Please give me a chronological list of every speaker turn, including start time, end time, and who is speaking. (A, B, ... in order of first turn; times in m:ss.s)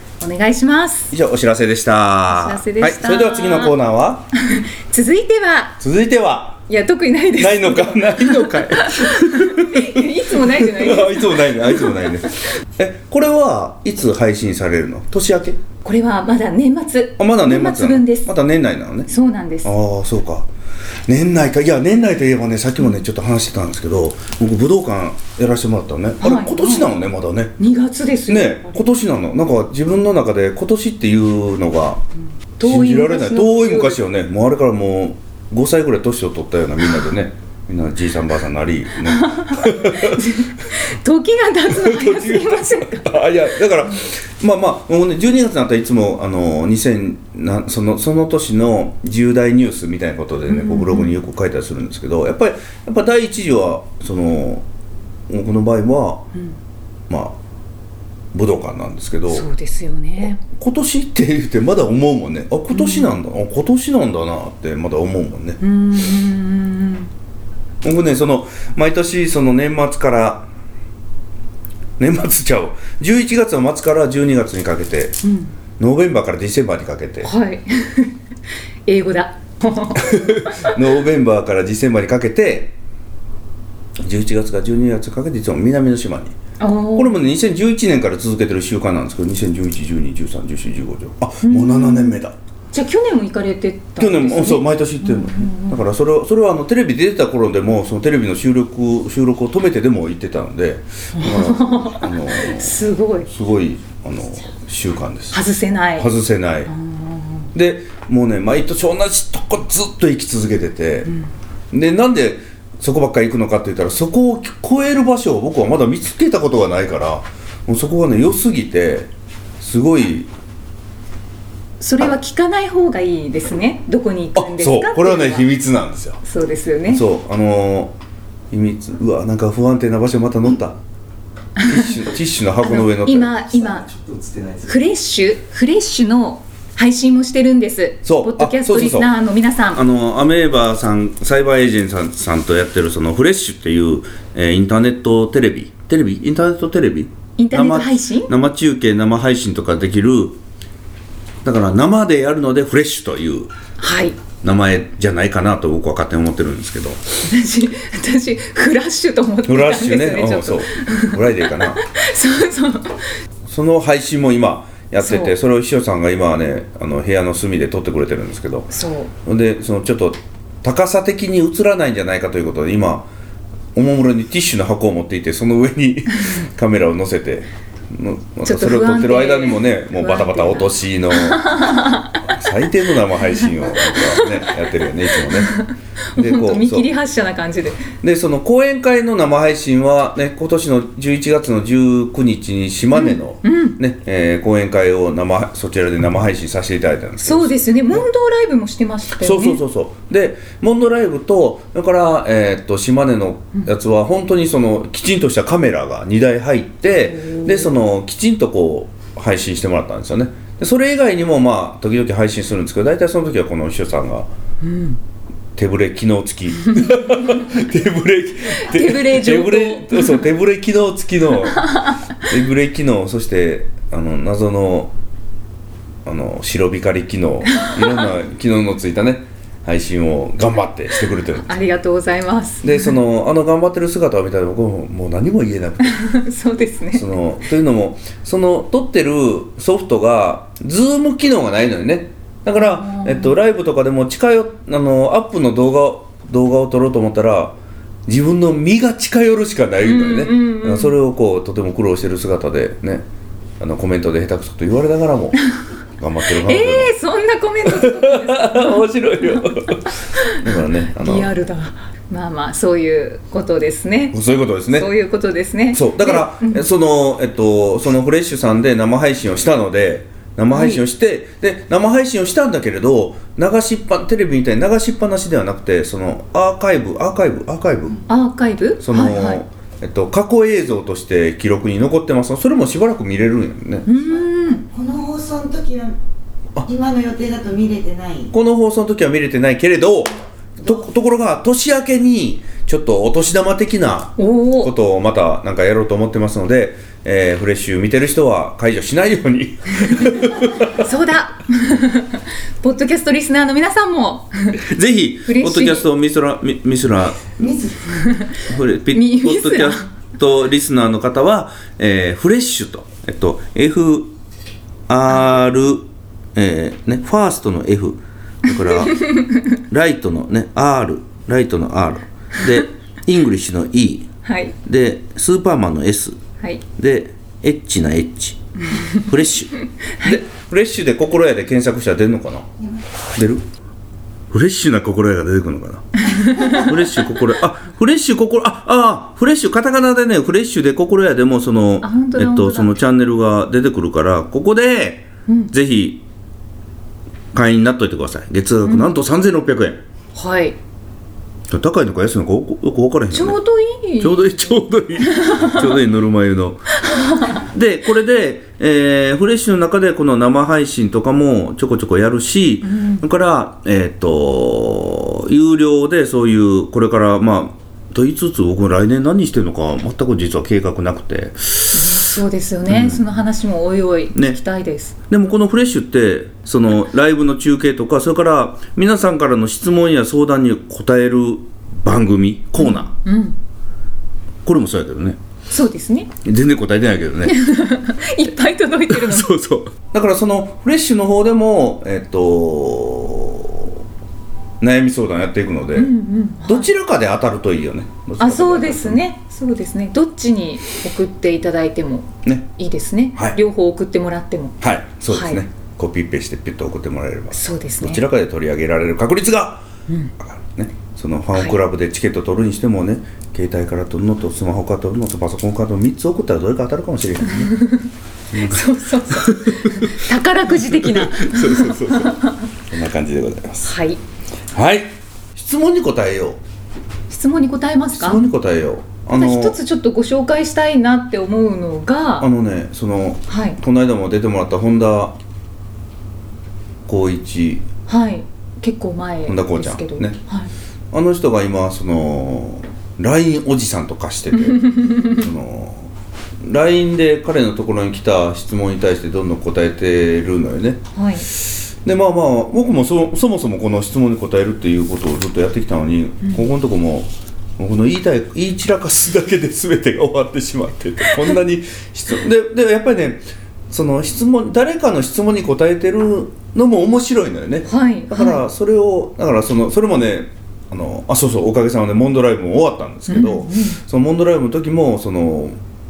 0:00.2-0:01.1 A
0:01.1-0:04.3 B
0:02.3-0:03.8 A
0:04.4-0:05.8 A
0:05.8-0:06.6 B
0:06.7-0:12.0 A
0:07.4-0:15.6 B
0:15.8-0:18.3 A
0:17.2-0:19.1 B
0:19.1-0:19.7 A
0:19.6-0:20.5 B
0:21.1-0:27.5 B
0:26.2-0:26.9 A
0:27.6-0:28.8 A
0:28.3-0:32.0 B
0:32.6-0:34.0 A
0:32.6-0:40.3 B
0:39.1-0:43.1 A
0:41.7-0:54.6 B
0:50.5-0:51.2 A
0:55.3-0:56.3 B
0:57.1-0:57.4 B
0:58.3-0:59.5 B
0:59.3-1:00.4 A
1:00.6-1:05.6 B
1:02.7-1:03.2 A
1:05.6-1:07.1 A
1:07.8-1:10.5 B
1:12.0-1:15.2 B
1:15.2-1:15.5 A
1:15.8-1:17.3 B
1:17.2-1:18.1 A
1:18.9-1:20.8 A
1:20.0-1:22.7 B
1:24.0-1:26.4 B
1:26.6-1:27.2 A
1:26.9-1:32.3 B
1:31.4-1:32.2 A
1:32.7-1:35.8 A
1:34.0-1:45.4 B
1:41.1-1:43.3 A
1:45.3-1:46.1 A
1:46.0-1:46.7 B
1:46.7-1:47.5 A
1:47.5-1:51.1 B
1:51.7-2:00.3 B
2:01.8-2:05.5 A
2:04.3-2:06.2 B
2:06.2-2:07.0 A
2:06.9-2:07.9 B
2:08.5-2:10.8 B
2:11.6-2:12.0 A
2:11.6-2:13.5 B
2:12.6-2:13.9 A
2:14.6-2:19.8 A
2:18.0-2:19.1 B
2:19.7-2:30.4 B
2:27.4-2:28.3 A
2:31.4-2:33.5 B
2:33.8-2:34.2 A
2:34.4-2:37.0 B
2:37.2-2:43.0 A
2:39.4-2:41.8 B
2:43.5-2:48.7 B
2:45.0-2:45.3 A
2:48.7-2:49.1 A
2:49.2-2:53.1 B
2:53.7-3:05.6 B
2:58.4-3:02.1 A
3:03.9-3:04.4 A
3:05.3-3:07.9 A
3:06.2-3:06.9 B
3:08.0-3:18.0 B
3:12.9-3:13.8 A
3:17.2-3:19.6 A
3:19.2-3:34.3 B
3:27.1-3:27.7 A
3:34.6-3:35.0 A
3:35.6-3:44.9 B
3:36.7-3:37.4 A
3:38.6-3:40.2 A
3:41.6-3:41.9 A
3:46.0-3:51.5 B
3:51.4-3:52.9 A
3:52.6-3:56.0 B
3:55.9-3:57.1 A
3:56.9-4:13.0 B
4:02.5-4:03.3 A
4:09.8-4:10.9 A
4:13.6-4:15.4 B
4:16.0-4:16.9 B
4:16.4-4:19.5 A
4:17.6-4:21.3 B
4:20.2-4:24.2 A
4:24.1-4:24.9 B
4:24.7-4:26.7 A
4:25.7-4:38.0 B
4:30.5-4:30.8 A
4:38.1-4:39.4 A
4:38.8-4:43.8 B
4:43.8-4:44.6 A
4:44.6-4:46.0 C
4:46.6-4:48.3 C
4:48.3-5:00.8 B
4:54.2-4:54.7 A
5:00.7-5:04.6 A
5:04.6-5:07.5 B
5:05.2-5:05.8 A
5:07.4-5:07.8 C
5:07.9-5:08.4 A
5:08.4-5:14.1 B
5:08.9-5:09.9 A
5:14.9-5:24.1 B
5:18.9-5:19.4 A
5:24.2-5:24.5 A
5:24.6-5:26.2 B
5:26.8-5:32.5 B
5:28.7-5:29.0 A
5:33.1-5:33.4 B
5:34.3-5:46.0 B
5:36.0-5:36.7 A
5:41.8-5:42.8 A
5:47.3-5:49.8 B
5:48.6-5:48.9 A
5:50.1-5:50.6 A
5:51.5-5:53.4 B
5:53.1-5:54.4 A
5:54.0-5:56.8 B
5:55.0-5:55.6 A
5:56.9-5:57.4 A
5:57.3-6:12.0 B
6:02.6-6:03.0 A
6:11.7-6:15.0 A
6:12.7-6:13.1 B
6:14.1-6:14.4 B
6:15.1-6:22.9 B
6:22.6-6:23.4 A
6:24.4-6:25.2 B
6:25.5-6:26.1 A
6:26.2-6:27.4 B
6:27.2-6:29.3 A
6:28.9-6:33.8 B
6:34.6-6:35.9 B
6:35.7-6:36.7 A
6:36.4-6:39.0 B
6:38.2-6:44.6 A
6:44.6-6:49.6 B
6:45.1-6:45.4 A
6:47.3-6:48.0 A
6:50.2-6:57.5 B
6:57.4-7:02.5 A
6:58.3-7:03.7 B
7:03.6-7:04.0 A
7:04.5-7:06.4 B
7:07.1-7:08.2 A
7:08.0-7:09.6 B
7:09.1-7:12.3 A
7:12.2-7:15.2 B
7:13.3-7:13.6 A
7:16.8-7:17.6 B
7:17.9-7:20.5 A
7:19.3-7:20.2 B
7:20.9-7:25.9 B
7:24.3-7:25.2 A
7:26.4-7:55.6 B
7:30.9-7:31.2 A
7:47.7-7:48.4 A
7:53.1-7:53.8 A